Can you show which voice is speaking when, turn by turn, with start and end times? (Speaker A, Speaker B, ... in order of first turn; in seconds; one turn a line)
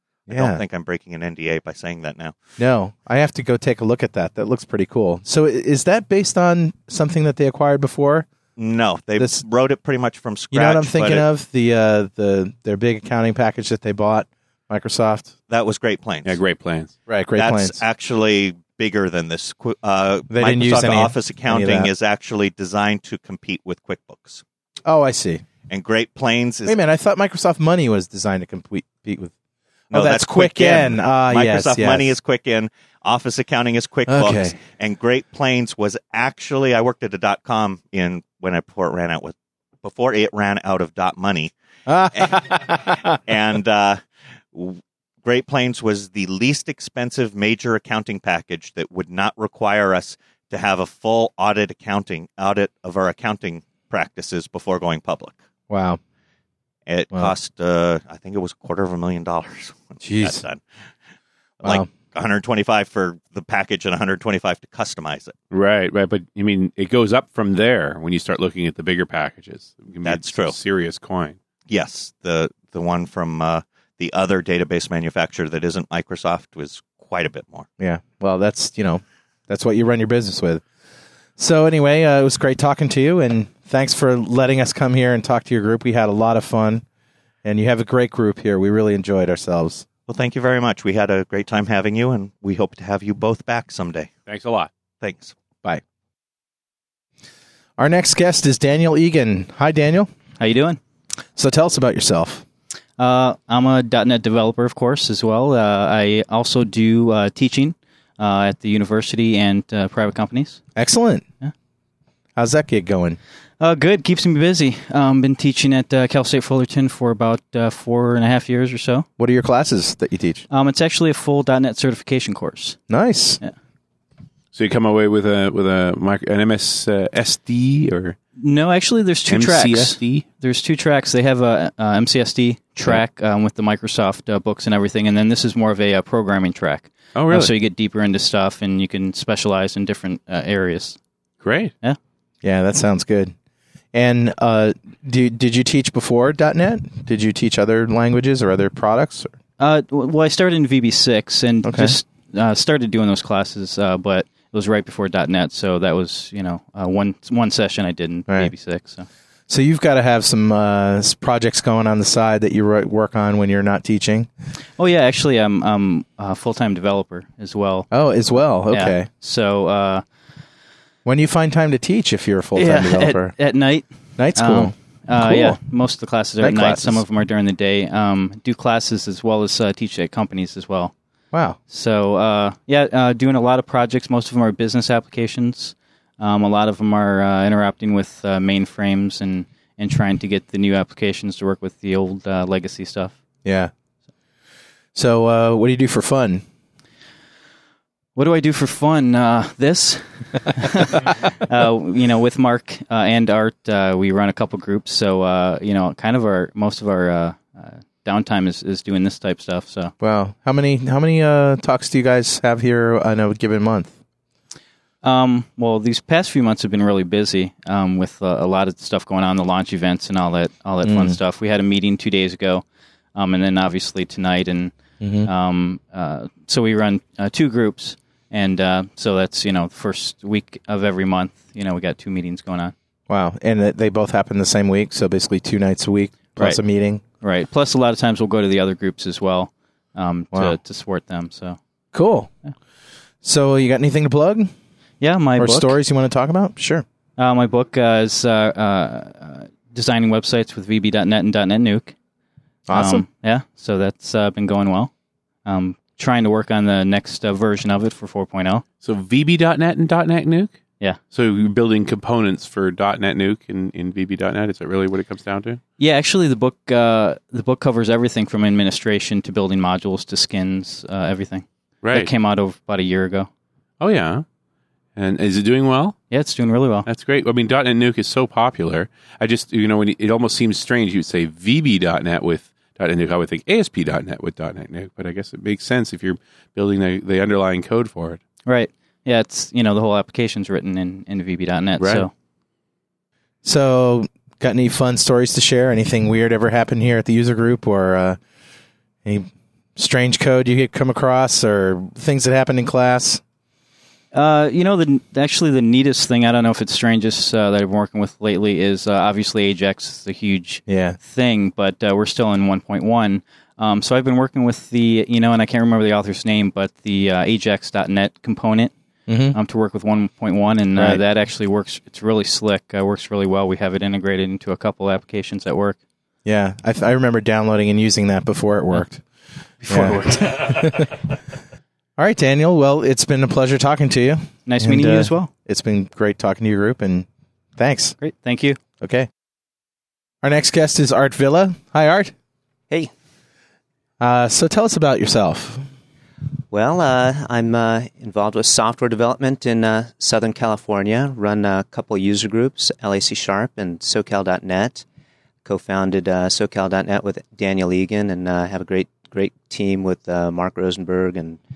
Speaker A: 0.3-2.3
Speaker B: 0.3-0.6
Speaker B: 2.6-8.3
Speaker A: 8.6-11.2
Speaker B: 10.5-15.3
Speaker A: 15.5-16.4
Speaker C: 16.2-16.9
Speaker B: 17.1-17.8
Speaker A: 17.4-24.4
Speaker B: 20.3-21.9
Speaker B: 24.9-25.4
Speaker A: 25.7-26.8
Speaker B: 26.6-29.3
Speaker A: 29.9-41.5
Speaker B: 29.9-32.1
Speaker B: 34.1-34.6
Speaker B: 41.9-43.2
Speaker A: 42.1-42.5
Speaker A: 43.3-44.0
Speaker A: 44.5-55.4
Speaker B: 55.7-56.0
Speaker A: 56.9-60.6
Speaker B: 60.0-60.4
Speaker A: 61.6-65.3
Speaker C: 65.5-71.4
Speaker A: 70.0-70.5
Speaker A: 71.7-77.7
Speaker B: 77.8-80.6
Speaker B: 81.4-86.8
Speaker B: 87.4-89.9
Speaker A: 90.1-94.1
Speaker C: 94.3-94.7
Speaker A: 95.0-95.3
Speaker B: 97.8-100.1
Speaker D: 100.4-100.8
Speaker B: 101.3-102.4
Speaker D: 103.0-110.6
Speaker B: 110.7-111.2
Speaker B: 112.3-113.2
Speaker D: 113.6-119.1
Speaker B: 119.2-120.4
Speaker D: 120.5-122.8
Speaker B: 122.9-123.4
Speaker C: 124.5-128.2
Speaker D: 128.4-141.0
Speaker C: 129.3-130.2
Speaker C: 137.1-137.5
Speaker C: 141.4-141.7
Speaker B: 142.4-143.3
Speaker B: 143.9-149.3
Speaker D: 149.6-159.1
Speaker B: 151.6-151.9
Speaker B: 159.5-164.3
Speaker D: 164.8-167.9
Speaker B: 167.9-169.1
Speaker D: 168.7-170.0
Speaker B: 171.0-173.3
Speaker D: 172.6-180.9
Speaker B: 174.2-175.6
Speaker B: 176.4-177.0
Speaker B: 181.3-181.6
Speaker D: 181.7-193.1
Speaker B: 193.4-193.7
Speaker B: 194.9-196.4
Speaker D: 198.2-209.9
Speaker B: 210.0-213.9
Speaker D: 215.0-222.6
Speaker B: 220.8-221.2
Speaker D: 223.1-232.7
Speaker B: 225.0-225.3
Speaker B: 233.1-237.0
Speaker D: 237.2-241.6
Speaker B: 240.3-240.6
Speaker B: 241.9-242.3
Speaker B: 243.2-244.5
Speaker D: 245.0-245.8
Speaker B: 245.4-246.8
Speaker D: 247.2-251.9
Speaker B: 252.7-253.0
Speaker D: 252.7-254.9
Speaker D: 255.4-258.6
Speaker C: 258.8-260.6
Speaker C: 261.1-265.6
Speaker D: 265.8-273.3
Speaker C: 271.8-272.1
Speaker C: 273.8-274.2
Speaker C: 274.9-276.0
Speaker D: 276.1-276.9
Speaker C: 276.9-288.2
Speaker D: 288.4-292.1
Speaker C: 291.8-292.0
Speaker B: 293.4-298.2
Speaker B: 299.0-303.2
Speaker D: 304.1-318.7
Speaker B: 310.7-311.0
Speaker B: 319.1-319.4
Speaker D: 319.3-325.8
Speaker B: 320.8-321.0
Speaker B: 326.2-329.0
Speaker D: 329.6-330.3
Speaker B: 329.7-330.9
Speaker B: 332.0-337.9
Speaker D: 334.4-335.3
Speaker D: 338.0-338.6
Speaker B: 338.8-339.1
Speaker B: 340.2-342.1
Speaker B: 344.0-345.6
Speaker E: 346.5-354.8
Speaker E: 355.4-361.4